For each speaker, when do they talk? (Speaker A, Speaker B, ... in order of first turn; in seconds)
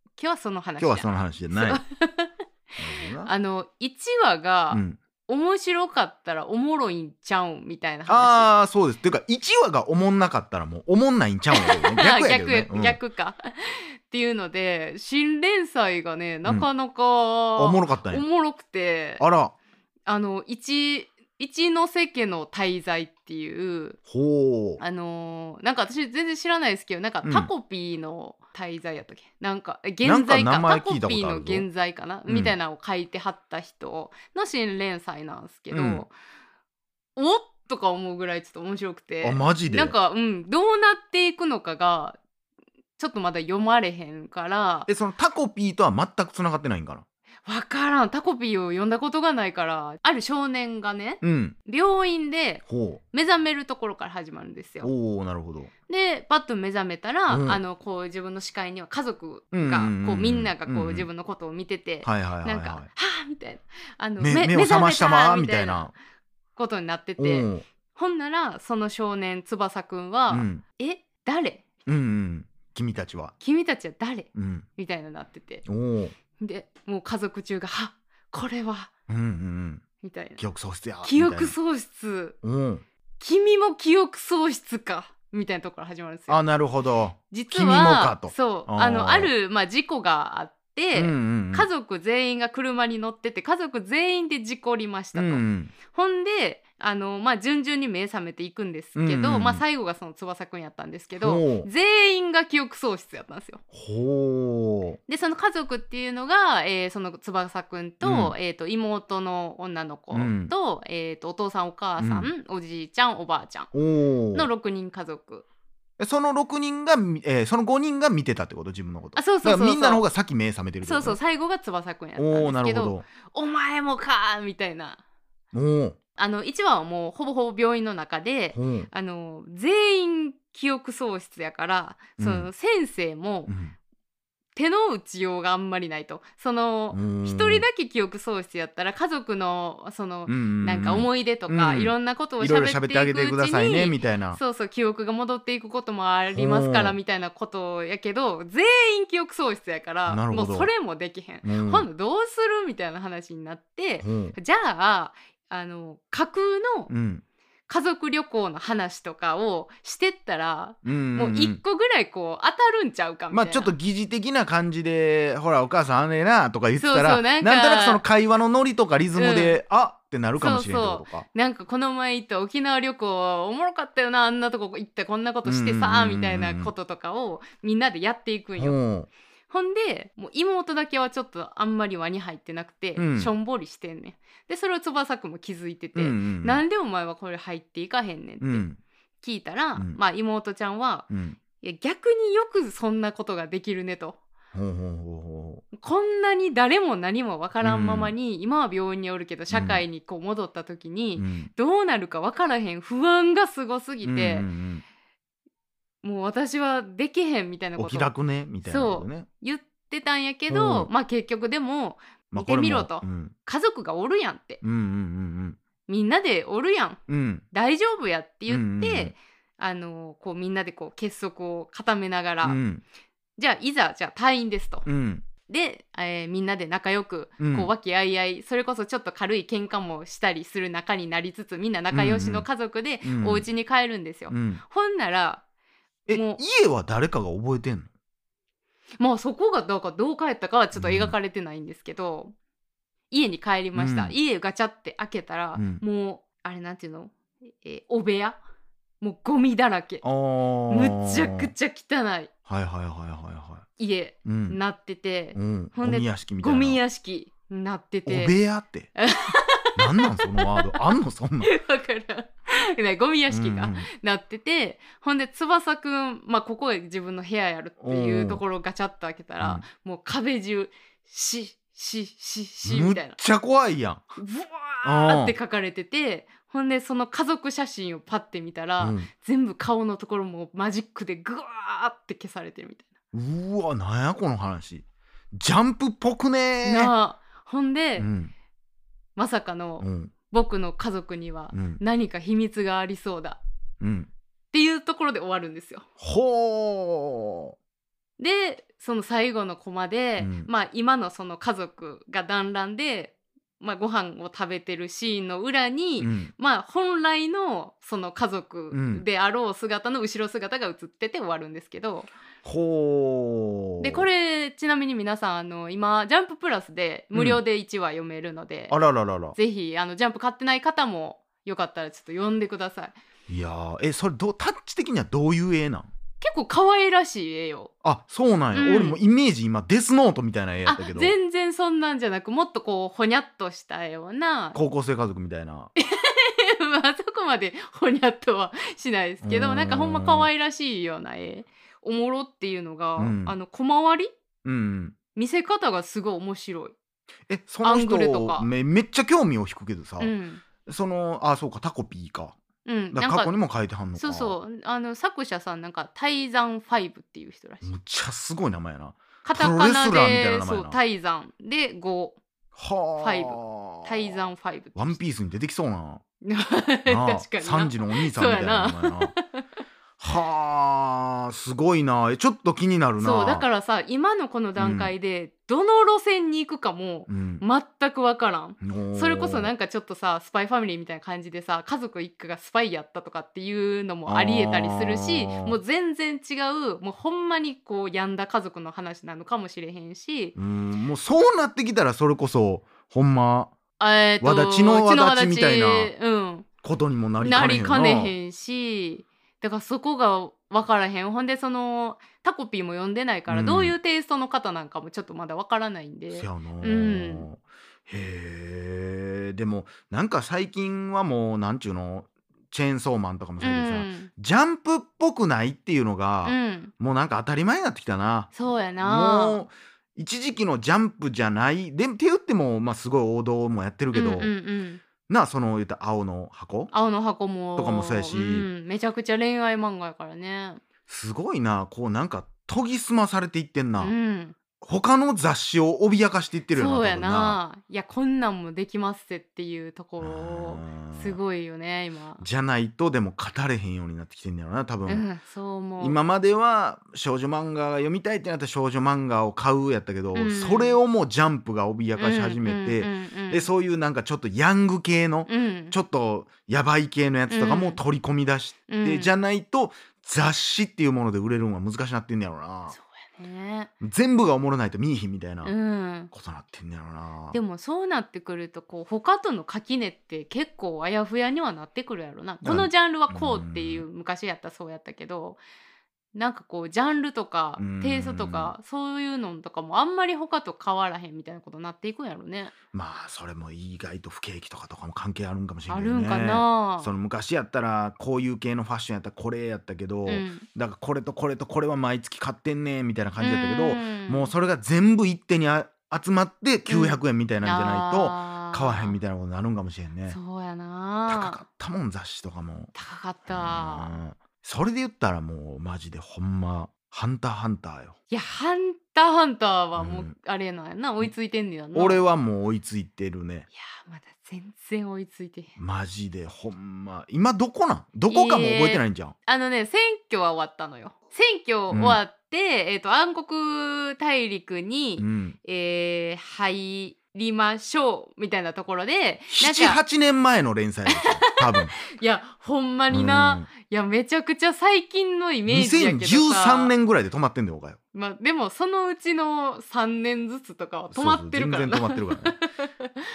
Speaker A: 0.2-2.3, 3.2-8.5, 11.5-19.2, 20.1-24.0, 24.8-36.1, 37.1-42.2, 43.0-44.9, 47.5-54.9, 55.9-65.9, 66.5-71.6, 73.4-75.6, 76.4-78.9, 80.0-80.4, 81.0-82.3, 83.2-86.4, 87.3-103.6, 105.1-113.7, 114.3-115.4, 119.2-120.0, 120.8-125.0, 126.2-133.5, 134.5-156.9, 157.7-163.7, 166.8-168.0, 169.2-169.6, 170.4-178.8, 179.5-188.6, 189.2-194.2, 195.7-204.5, 206.0-208.1, 208.6-214.6, 215.9-217.0, 217.5-222.6, 223.4-224.9, 225.4-235.4, 236.1-236.4, 239.0-242.3, 243.1-248.4, 249.0-250.0, 250.7-252.3, 253.8-258.3, 258.9-260.9, 261.4-273.1, 274.2-282.9, 286.6-288.1, 289.1-293.4, 294.5-295.8, 298.2-312.1, 313.8-318.8, 319.4-323.0, 326.2-327.7, 328.5-329.0, 330.6-334.6, 335.8-344.1, 345.1-346.7, 347.6-348.5, 350.0-350.4, 352.6-353.3, 354.0-357.7, 359.2-362.2, 363.0-365.0, 366.2-369.4, 373.0-390.3, 393.8-396.5, 397.2-407.3, 413.4-414.1, 416.2-416.7, 418.3-419.4, 423.9-424.8, 426.7-430.6, 433.8-434.3, 436.5-442.2, 444.9-446.0, 450.1-450.8, 452.0-453.5, 455.3-455.8, 457.3-457.8, 458.7-459.1, 462.7-463.7, 465.4-466.1, 467.3-475.4, 476.1-482.5, 485.7-486.9, 490.1-490.4, 493.2-494.3, 496.7-498.9, 500.1-501.4, 502.7-504.0, 508.1-512.0, 513.5-515.5, 518.1-529.8, 530.9-536.7, 537.9-542.9
Speaker B: 0.8-1.8, 2.8-3.3, 4.7-5.0, 8.1-13.0, 17.6-18.2, 19.2-19.5, 24.1-24.8, 27.2-27.5, 30.0-31.7, 32.3-32.5, 35.7-36.0, 39.2-39.9, 44.9-47.0, 51.2-51.5, 52.7-53.0, 54.8-55.7, 57.3-57.6, 59.5-61.1, 62.0-62.9, 64.2-65.9, 67.2-67.6, 70.3-70.6, 71.8-73.3, 74.3-74.7, 75.7-76.2, 79.1-79.8, 80.4-81.5, 82.4-82.8, 86.3-89.3, 90.9-91.7, 95.1-95.7, 99.0-99.6, 101.2-101.7, 103.7-105.0, 108.0-108.3, 110.1-110.5, 112.0-112.3, 113.7-114.5, 116.0-121.2, 122.2-123.0, 125.5-126.0, 128.5-128.9, 132.2-132.5, 133.5-133.8, 136.9-137.6, 140.2-144.4, 146.3-146.9, 150.1-150.7, 151.4-151.9, 154.0-154.3, 156.9-157.2, 160.8-161.6, 163.3-171.2, 175.4-176.7, 178.6-179.1, 183.0-183.3, 185.9-186.6, 188.4-188.8, 191.1-191.4, 194.5-195.6, 197.6-198.1, 199.5-199.8, 201.2-201.5, 204.0-204.8, 207.8-209.3, 210.5-210.9, 212.3-213.3, 214.6-215.6, 217.1-217.4, 218.5-219.1, 222.4-222.8, 224.8-225.2, 227.4-227.7, 231.9-232.5, 233.0-233.5, 234.3-234.6, 236.1-237.9, 240.7-241.1, 243.7-244.1, 245.5-245.8, 250.0-251.5, 252.5-253.7, 254.2-254.6, 255.3-256.8, 258.1-258.9, 259.8-261.5, 263.3-263.9, 267.8-268.4, 269.4-269.6, 272.6-274.0, 274.8-275.4, 278.8-279.1, 283.1-286.9, 288.0-288.3, 289.8-290.1, 291.5-291.8, 293.8-294.1, 296.0-297.5, 300.2-300.5, 306.0-306.3, 308.7-309.0, 312.4-314.1, 317.1-317.4, 318.7-319.4, 323.3-325.9, 327.8-331.1, 334.5-335.7, 339.2-340.3, 343.0-343.4, 344.4-345.0, 347.3-350.1, 350.6-352.4, 352.9-354.4, 357.6-360.8, 362.5-364.1, 364.7-366.0, 366.9-369.1, 370.0-373.4, 374.6-374.9, 377.1-377.4, 378.6-379.5, 384.1-385.6, 390.4-393.5, 394.2-395.9, 396.6-398.1, 403.3-403.7, 406.1-424.3, 425.1-426.7, 427.6-428.5, 430.9-433.9, 434.6-437.4, 440.0-441.2, 442.2-445.1, 445.8-462.8, 463.8-465.5, 466.1-467.4, 472.4-473.8, 477.6-478.5, 482.7-500.2, 501.1-502.7, 503.3-507.9, 509.8-510.1, 511.7-513.5, 515.6-519.1, 521.7-522.0, 525.0-525.4, 529.3-531.8, 532.9-533.5, 535.5-537.8, 540.9-542.4